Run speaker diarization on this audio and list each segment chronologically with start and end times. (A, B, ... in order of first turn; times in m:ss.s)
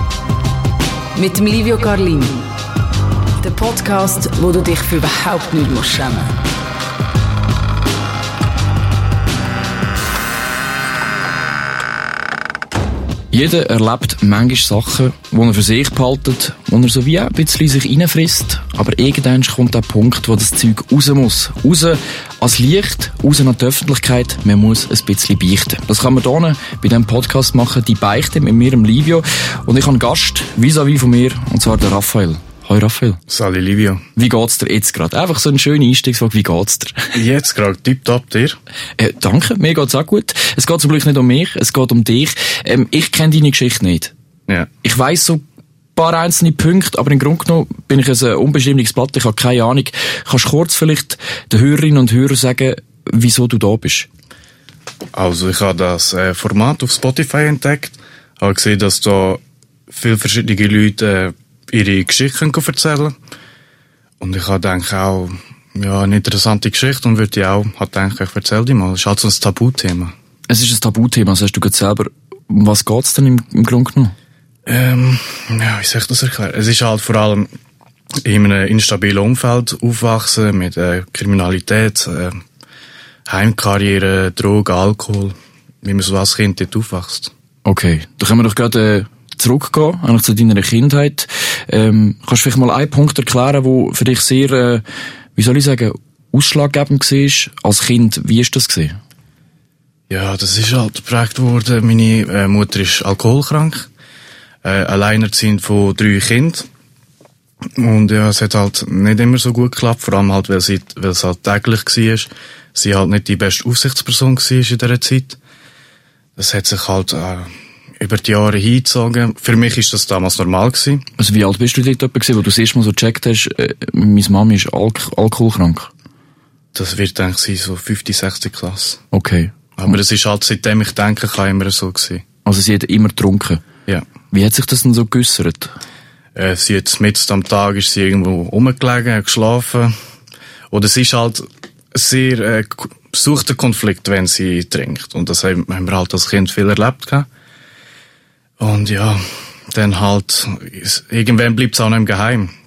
0:01.2-0:02.5 A
0:03.4-0:06.4 A
0:13.3-0:33.2 B
0:33.3-0:34.0 C
0:34.2-0:37.1 B
0:37.1-0:38.6 C
0:39.0-0:44.1 B
0:44.8-0:45.4 B
0:46.0-0:54.1 B
0:55.1-1:03.1 C
1:04.2-1:10.1 C
1:10.5-1:14.2 B
1:14.7-1:17.5 C
1:18.2-1:22.4 C
1:23.3-1:27.3 C
1:27.6-1:34.8 B
1:35.4-1:39.0 B
1:40.1-1:43.9 C
1:44.6-1:46.7 C
1:47.8-1:55.4 C
1:56.4-2:01.1 C
2:01.2-2:05.9 B
2:06.8-2:09.0 C
2:09.1-2:09.5 B
2:09.8-2:12.2 C
2:12.4-2:13.6 B
2:14.3-2:15.7 B
2:16.4-2:19.9 C
2:20.7-2:27.3 C
2:28.6-2:32.5 C